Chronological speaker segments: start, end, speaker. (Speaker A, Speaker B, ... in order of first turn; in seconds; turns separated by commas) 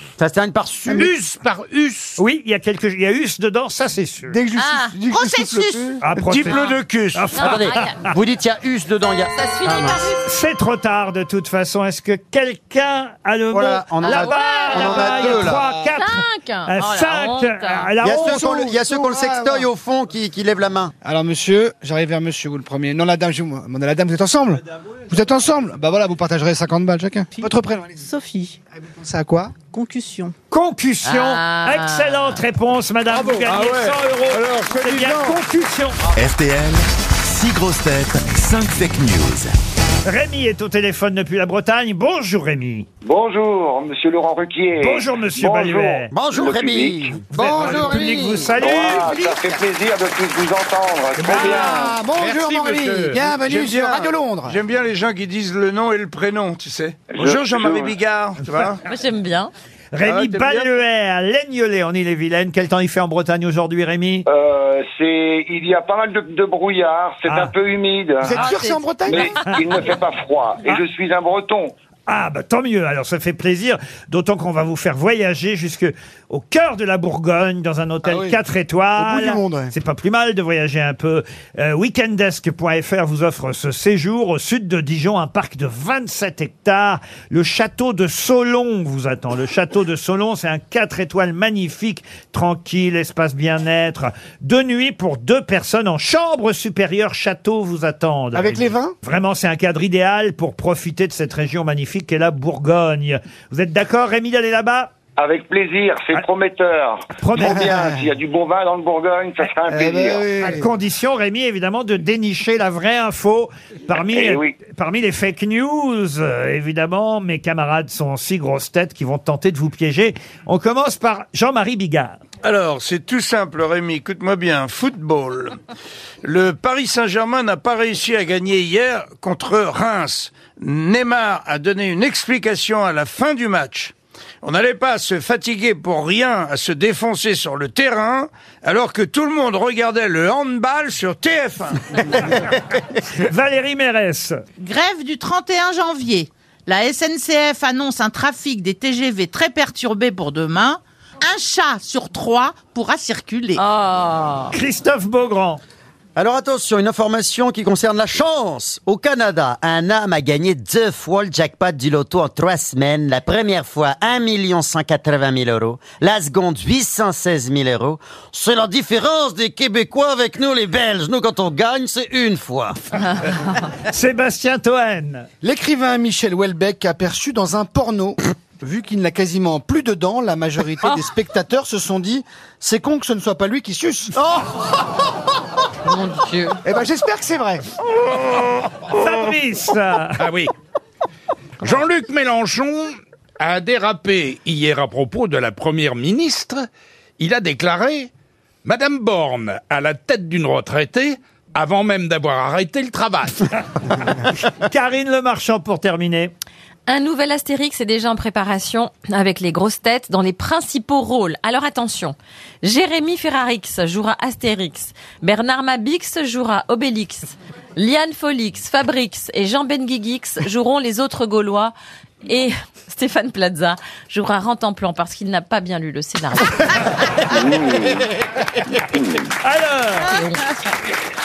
Speaker A: 0.2-1.1, Speaker B: 0.9-2.2, Speaker C: 2.2-4.4, Speaker D: 4.3-6.0, Speaker E: 4.5-4.9, Speaker F: 5.1-5.9, Speaker C: 6.0-8.1, Speaker G: 6.1-7.3, Speaker E: 7.3-8.0, Speaker A: 7.4-10.1, Speaker E: 9.3-10.2, Speaker C: 10.2-18.4, Speaker A: 13.5-15.6, Speaker E: 14.0-17.9, Speaker D: 15.0-15.7, Speaker A: 18.0-20.9, Speaker D: 18.1-19.6, Speaker D: 21.0-29.7, Speaker C: 30.5-36.0, Speaker E: 31.0-32.4, Speaker B: 33.1-33.7, Speaker G: 33.2-35.4, Speaker H: 36.1-39.5, Speaker C: 40.0-42.9, Speaker I: 43.0-47.2, Speaker C: 44.8-46.1, Speaker A: 46.1-48.2, Speaker C: 47.3-49.3, Speaker D: 47.3-49.2, Speaker I: 48.5-51.9, Speaker D: 51.2-54.6, Speaker C: 51.3-51.6, Speaker B: 52.0-53.2, Speaker G: 53.3-58.8, Speaker I: 57.1-58.0, Speaker E: 58.8-59.5, Speaker C: 59.9-64.2, Speaker G: 60.0-60.7, Speaker I: 64.2-68.4, Speaker D: 68.2-69.4, Speaker E: 68.3-69.4, Speaker I: 69.1-71.7, Speaker C: 72.1-104.9, Speaker D: 78.0-78.4, Speaker D: 79.0-79.7, Speaker D: 98.3-98.9, Speaker I: 105.2-110.3, Speaker C: 107.2-107.7, Speaker D: 107.3-108.1, Speaker D: 109.7-110.7, Speaker C: 110.4-122.2, Speaker I: 114.1-114.5, Speaker G: 122.4-125.6, Speaker G: 126.2-142.2, Speaker C: 143.1-144.4, Speaker F: 144.6-153.6, Speaker E: 153.6-154.5, Speaker C: 154.5-155.6, Speaker A: 156.2-172.8, Speaker C: 173.8-175.3, Speaker D: 175.4-184.5, Speaker E: 185.8-186.6, Speaker D: 186.6-187.6, Speaker C: 188.9-190.2, Speaker B: 190.2-190.5, Speaker B: 191.6-196.7, Speaker B: 197.2-198.1, Speaker B: 198.6-203.5, Speaker C: 204.4-206.3, Speaker E: 206.9-221.7, Speaker E: 222.2-226.8, Speaker I: 227.2-228.1, Speaker I: 228.7-229.2, Speaker C: 229.4-230.1, Speaker E: 230.0-230.5